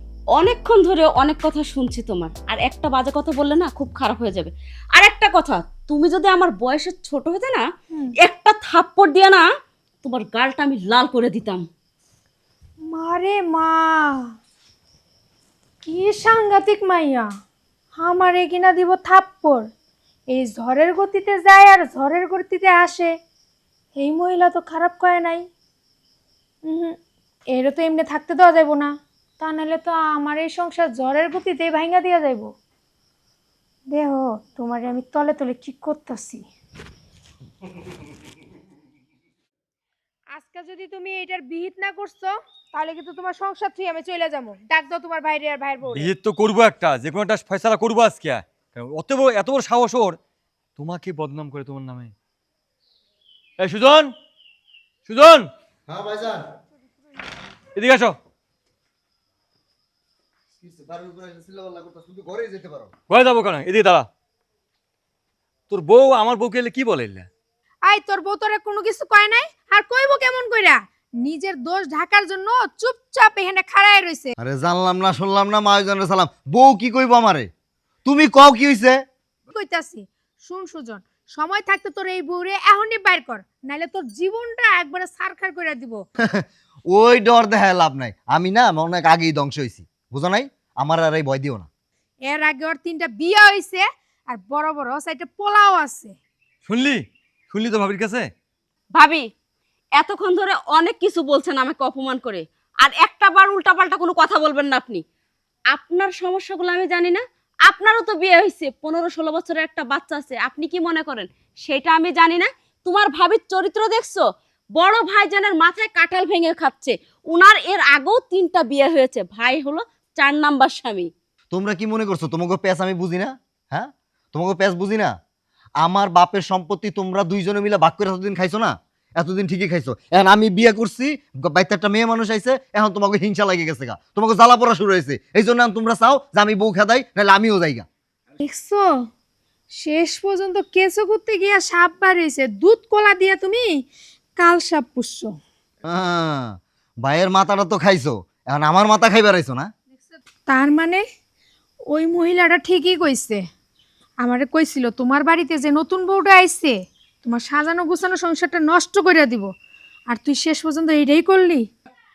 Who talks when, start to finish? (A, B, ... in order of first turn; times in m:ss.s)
0:00.4-0:07.6 A
0:08.2-0:09.4 A
0:10.0-0:11.6 A
0:12.9-0:14.3 B
0:15.8-0:17.3 B
0:18.0-0:19.6 B
0:20.3-0:23.1 B
0:24.0-0:25.5 B
0:26.6-0:27.0 B
0:27.5-0:32.5 B
0:33.9-0:36.4 B
0:40.3-0:46.1 B
0:45.9-0:50.2 C
0:50.8-0:52.1 C
0:53.6-0:54.1 C
0:55.0-0:55.5 C
0:55.9-0:56.5 D
0:57.8-0:58.2 C
1:00.6-1:02.9 D
1:03.1-1:04.1 C
1:05.7-1:07.3 C
1:07.8-1:14.3 B
1:14.4-1:17.5 D
1:18.0-1:19.0 D
1:19.5-1:26.0 B
1:26.2-1:31.7 D
1:32.3-1:36.2 B
1:36.6-1:38.3 C
1:38.9-1:39.2 A
1:40.0-1:45.0 A
1:45.7-1:54.2 A
1:54.8-2:01.1 A
2:01.5-2:05.1 D
2:05.8-2:17.8 D
2:18.4-2:19.0 B
2:19.7-2:23.8 B
2:24.4-2:25.3 B
2:25.9-2:29.7 D
2:30.5-2:31.0 B
2:31.9-2:33.4 B
2:34.2-2:39.5 B
2:40.1-2:41.6 B